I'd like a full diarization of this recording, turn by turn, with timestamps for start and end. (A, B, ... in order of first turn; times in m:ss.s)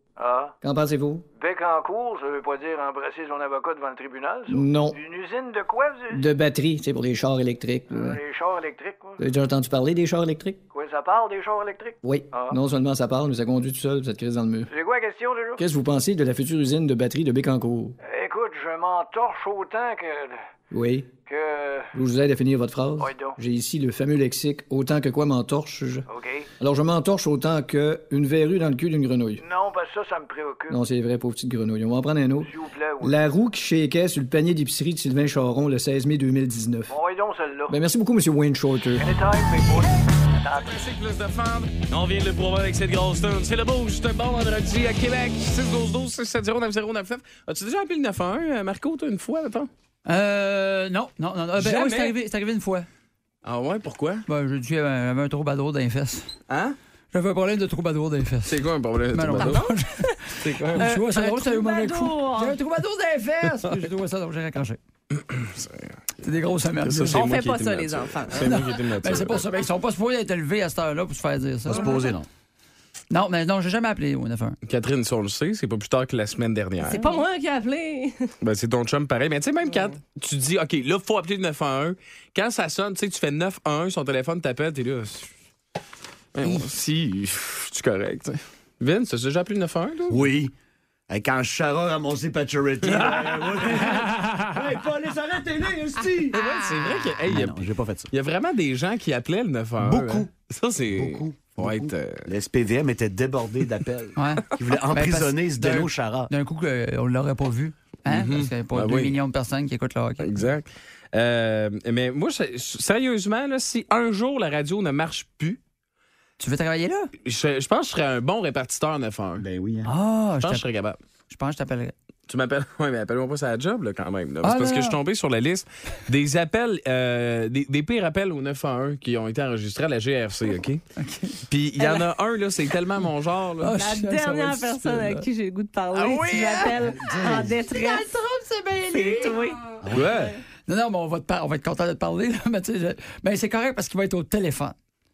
0:00.2-0:00.5 A
0:00.6-0:01.2 B
0:01.4-0:06.2 A
0:04.5-0:05.0 B
0:06.1-0:08.2 B
0:07.9-0:09.2 A
0:09.2-0:10.6 B
0:10.7-0:12.6 A
0:12.0-0:14.7 B
0:14.7-0:15.6 A
0:15.6-0:18.0 B
0:18.0-0:20.4 A
0:20.7-0:21.1 B
0:21.2-0:21.9 A
0:21.9-0:26.0 B
0:23.0-0:23.4 A
0:26.1-0:26.5 A
0:26.6-0:29.4 B
0:29.4-0:30.8 A
0:30.7-0:36.9 B
0:32.4-0:33.2 A
0:36.9-0:37.8 A
0:37.7-0:39.1 B
0:39.0-0:40.7 A
0:40.5-0:49.7 C
0:50.0-0:52.9 D
0:51.6-0:52.1 C
0:53.4-0:54.2 C
0:54.3-0:56.3 D
0:56.5-0:56.8 C
0:57.1-0:58.6 D
0:58.4-0:59.6 C
0:59.1-1:04.8 D
0:59.4-1:02.6 E
1:00.4-1:00.9 C
1:05.1-1:06.0 C
1:06.2-1:07.2 D
1:06.8-1:09.4 C
1:07.0-1:08.6 E
1:08.4-1:11.9 D
1:11.7-1:12.2 F
1:13.1-1:14.6 D
1:14.6-1:17.2 C
1:16.8-1:18.3 E
1:18.4-1:25.3 C
1:26.3-1:30.2 C
1:30.1-1:30.5 F
1:31.1-1:36.4 F
1:32.8-1:34.2 C
1:36.3-1:42.3 C
1:37.2-1:38.1 F
1:39.8-1:40.3 F
1:40.9-1:46.3 F
1:44.2-1:50.3 D
1:48.1-1:49.2 C
1:50.2-1:55.6 C
1:56.4-1:57.1 D
1:57.2-1:59.4 C
1:59.4-1:59.9 F
1:59.8-2:00.6 D
2:00.4-2:01.0 C
2:01.3-2:01.9 D
2:02.3-2:10.8 C
2:04.4-2:05.0 D
2:11.0-2:11.4 D
2:11.5-2:13.8 C
2:11.8-2:12.1 E
2:13.6-2:15.2 D
2:13.7-2:18.1 E
2:15.9-2:19.4 D
2:17.0-2:17.6 F
2:18.9-2:20.2 E
2:19.8-2:20.1 F
2:19.9-2:20.3 C
2:20.6-2:24.7 D